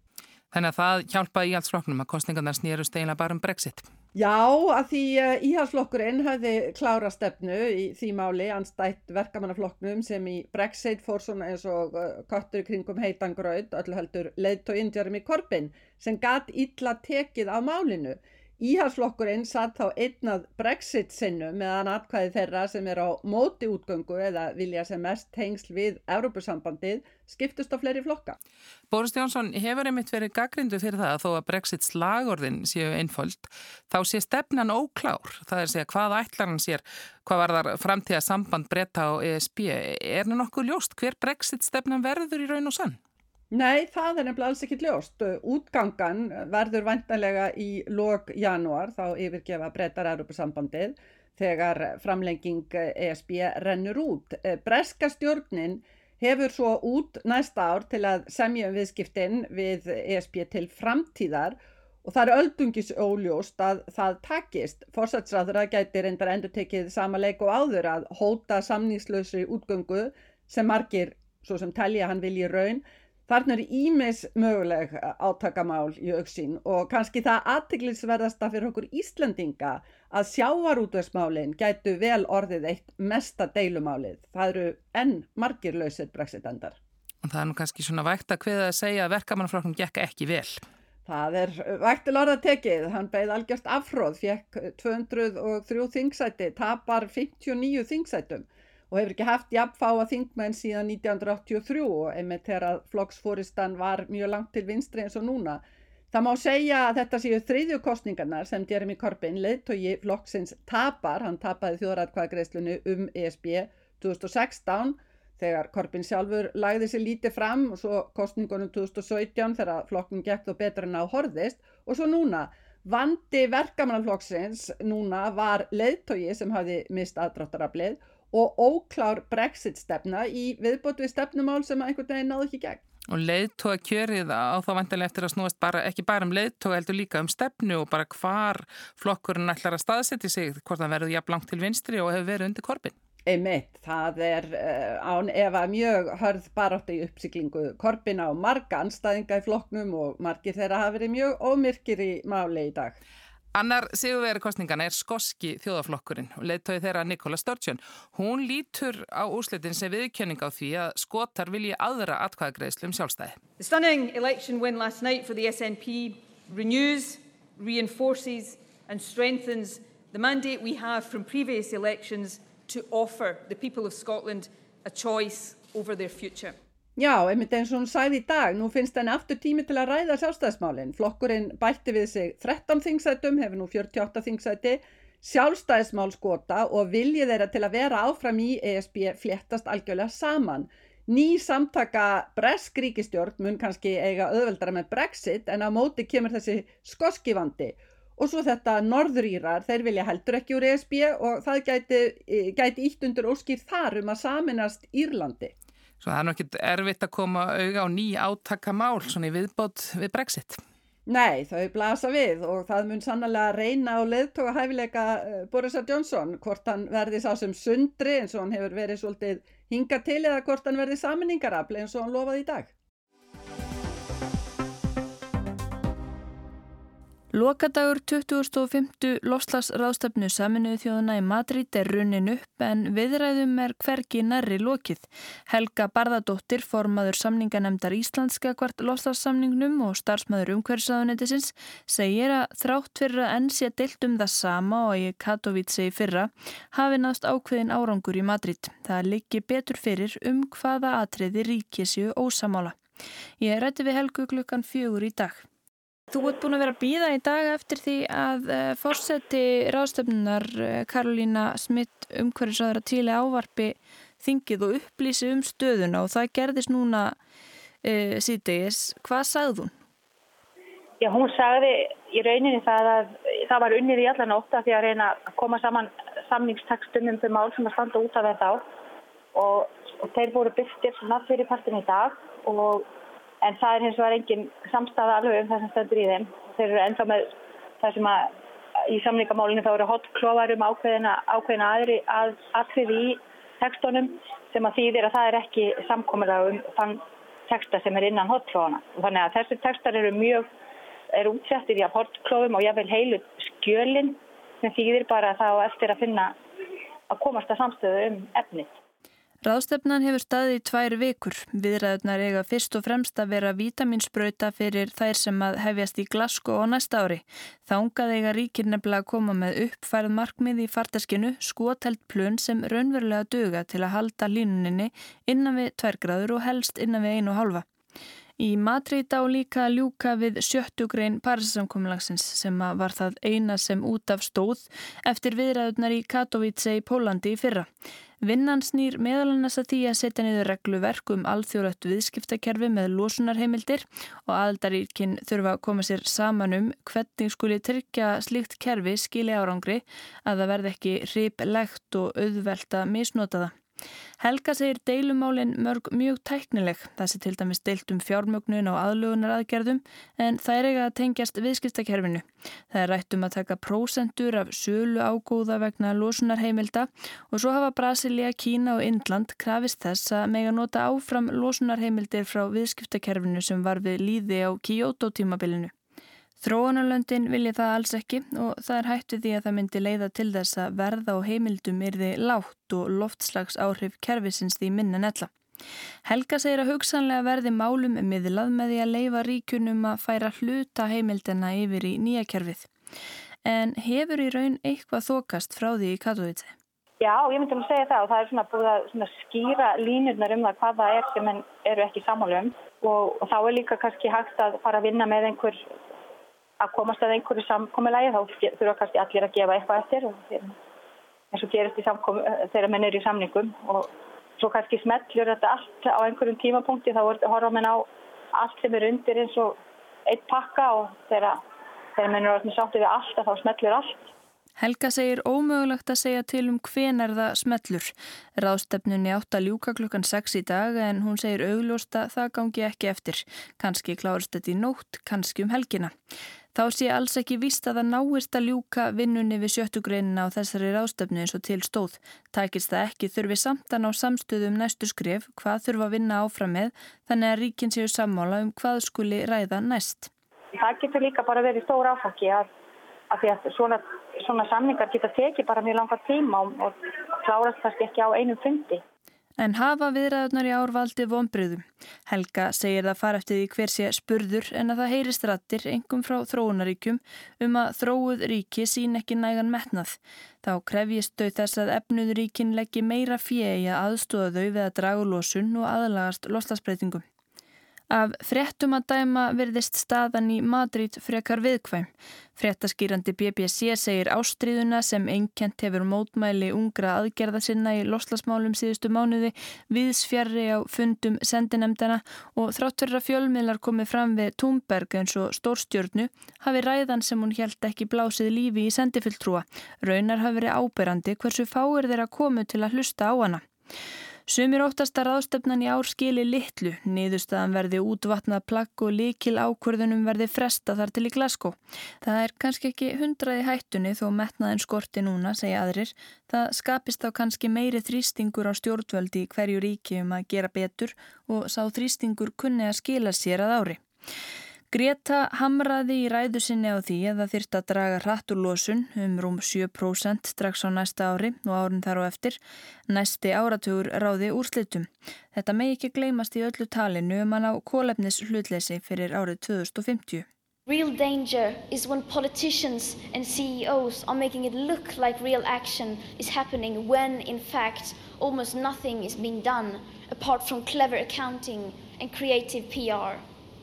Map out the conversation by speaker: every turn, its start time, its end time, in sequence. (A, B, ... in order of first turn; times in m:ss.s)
0:00.5-0:03.9 A
0:04.2-0:28.4 B
0:28.9-0:43.0 A
0:43.5-1:26.8 B
1:27.2-1:30.6 A
1:31.1-2:12.8 B
2:13.1-2:22.9 A
2:23.3-2:33.0 B
2:33.5-2:43.4 A
2:43.6-2:56.6 C
2:57.0-3:25.5 B
3:26.0-3:30.6 A
3:31.1-3:42.7 B
3:47.3-4:12.8 D
4:13.4-4:15.5 D
4:16.1-4:27.2 D
4:27.8-4:29.7 D
4:31.0-4:38.6 E
4:39.3-4:42.9 E
4:43.4-4:48.3 E
4:48.9-5:00.5 E
5:01.1-5:06.4 E
5:07.1-5:08.8 E
5:09.4-5:27.6 D
5:28.4-5:37.7 D
5:38.2-5:53.6 D
5:54.2-6:15.7 D
6:16.4-6:25.3 D
6:26.1-6:32.7 D
6:33.4-6:36.5 D
6:37.0-6:45.6 E
6:46.6-6:50.6 E
6:51.3-7:01.4 E
7:02.0-7:04.1 E
7:04.6-7:15.9 D
7:16.6-7:30.1 D
7:30.6-7:32.5 E
7:33.1-7:38.8 E
7:39.4-7:57.0 D
7:57.9-8:23.4 D
8:24.3-8:43.8 D
8:44.7-9:00.3 D
9:00.7-9:13.2 F